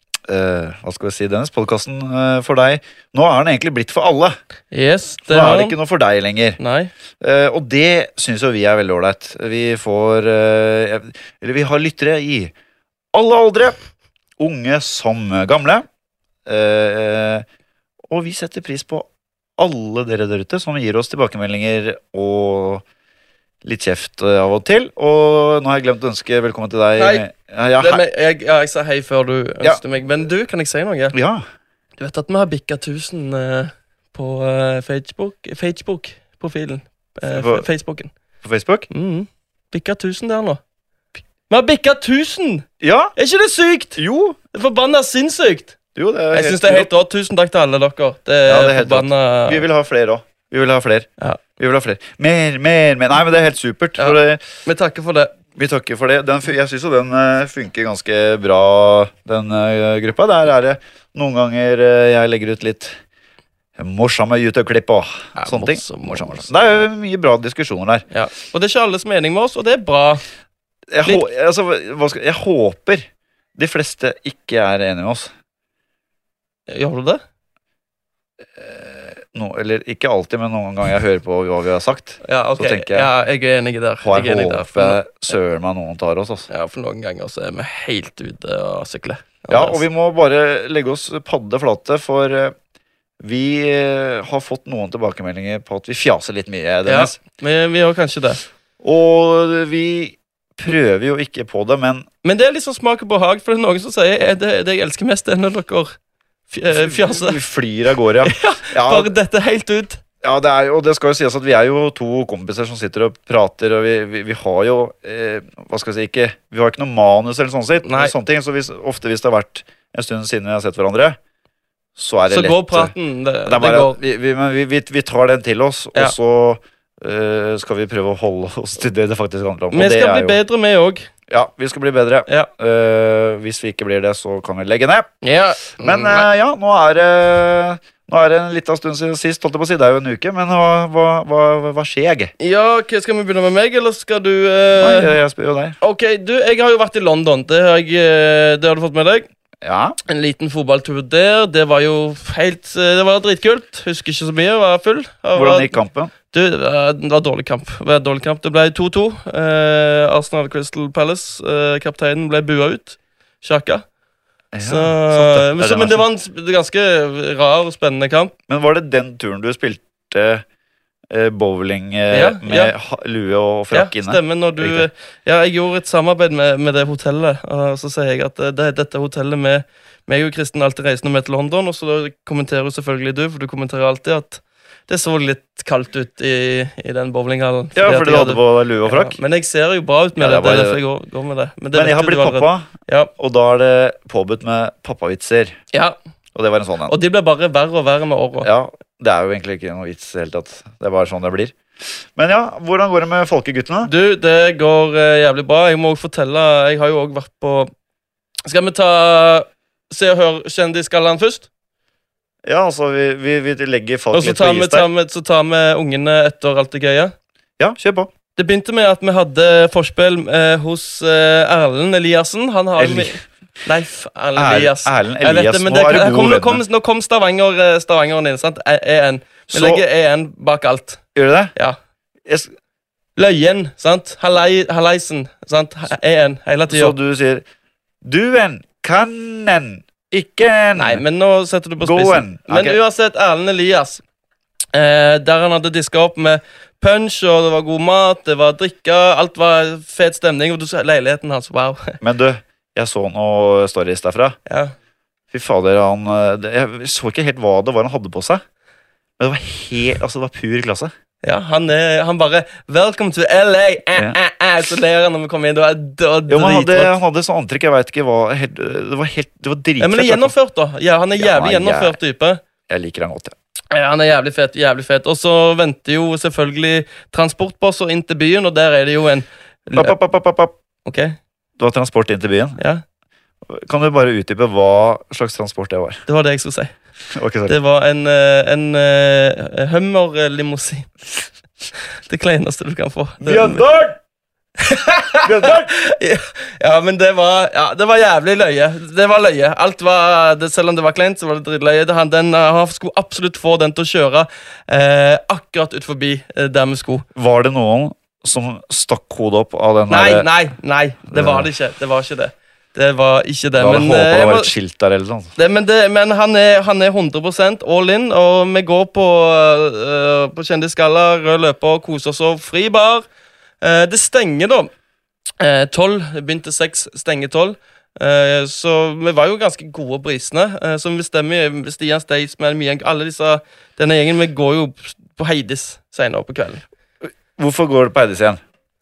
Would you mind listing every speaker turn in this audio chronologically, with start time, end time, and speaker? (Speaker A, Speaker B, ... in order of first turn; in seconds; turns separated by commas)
Speaker A: 0.3-4.3, Speaker B: 4.7-5.8, Speaker A: 5.2-6.6, Speaker B: 6.6-6.9, Speaker A: 7.2-12.5, Speaker A: 13.1-13.8, Speaker A: 14.4-15.8, Speaker A: 16.4-17.4, Speaker A: 18.1-19.1, Speaker A: 19.6-22.8, Speaker A: 23.6-28.0, Speaker B: 27.0-27.2, Speaker B: 27.8-31.1, Speaker A: 31.1-31.4, Speaker B: 32.0-38.1, Speaker A: 37.2-37.6, Speaker A: 38.4-38.9, Speaker B: 38.9-40.6, Speaker B: 41.5-44.0, Speaker A: 42.8-43.1, Speaker A: 44.0-44.4, Speaker B: 44.5-45.7, Speaker A: 45.9-46.9, Speaker B: 46.3-49.6, Speaker A: 48.5-54.4, Speaker B: 54.0-55.3, Speaker A: 55.5-62.9, Speaker A: 63.8-68.0, Speaker B: 65.3-66.7, Speaker B: 68.1-70.2, Speaker A: 70.9-73.0, Speaker A: 73.5-75.3, Speaker B: 76.7-77.2, Speaker A: 78.5-83.1, Speaker B: 82.2-85.0, Speaker A: 84.0-86.5, Speaker B: 86.5-89.8, Speaker A: 89.5-92.5, Speaker A: 93.2-97.2, Speaker B: 96.8-98.4, Speaker A: 98.8-102.1, Speaker B: 102.2-106.0, Speaker B: 106.5-107.4, Speaker A: 106.7-109.1, Speaker B: 108.2-110.0, Speaker A: 110.2-121.2, Speaker B: 117.8-118.1, Speaker A: 122.0-122.9, Speaker B: 122.3-124.0, Speaker A: 123.5-130.4, Speaker B: 129.7-131.1, Speaker A: 131.3-135.1, Speaker B: 135.2-136.3, Speaker A: 135.8-142.3, Speaker B: 142.4-145.1, Speaker A: 144.8-145.8, Speaker B: 145.8-149.3, Speaker A: 149.6-150.0, Speaker B: 150.1-163.8, Speaker A: 155.3-156.1, Speaker A: 164.5-166.0, Speaker B: 164.6-168.3, Speaker A: 168.5-170.4, Speaker A: 171.1-174.9, Speaker B: 172.1-172.7, Speaker B: 173.7-193.1, Speaker A: 187.7-189.2, Speaker A: 190.2-190.8, Speaker A: 191.7-195.5, Speaker A: 196.3-196.9, Speaker B: 196.9-198.5, Speaker A: 198.4-203.9, Speaker B: 203.8-207.7, Speaker B: 208.5-211.5, Speaker A: 212.4-214.9, Speaker B: 214.1-217.1, Speaker A: 217.6-218.1, Speaker B: 218.3-231.0, Speaker A: 222.8-223.2, Speaker A: 224.3-226.6, Speaker A: 229.5-229.8, Speaker A: 231.1-231.5, Speaker B: 233.2-236.9, Speaker A: 236.7-237.4, Speaker A: 238.0-241.0, Speaker B: 240.8-244.0, Speaker A: 241.8-242.8, Speaker B: 244.7-252.0, Speaker A: 252.0-254.4, Speaker B: 254.5-254.7, Speaker A: 255.3-258.4, Speaker A: 259.2-260.9, Speaker B: 261.2-266.9, Speaker A: 266.3-270.3, Speaker B: 269.8-272.4, Speaker A: 271.1-271.9, Speaker A: 272.7-273.3, Speaker B: 273.7-279.9, Speaker A: 279.8-280.5, Speaker B: 280.8-281.1, Speaker A: 281.6-282.6, Speaker B: 282.6-282.8, Speaker A: 283.5-286.0, Speaker B: 286.1-286.8, Speaker A: 287.1-287.5, Speaker B: 287.4-290.9, Speaker B: 292.0-293.6, Speaker A: 293.2-294.0, Speaker B: 294.6-307.1, Speaker A: 295.2-295.7, Speaker A: 307.1-310.3, Speaker B: 309.9-314.5, Speaker A: 311.1-311.5, Speaker A: 313.6-315.3, Speaker B: 315.4-323.1, Speaker B: 323.6-324.7, Speaker B: 325.4-336.6, Speaker A: 337.0-338.4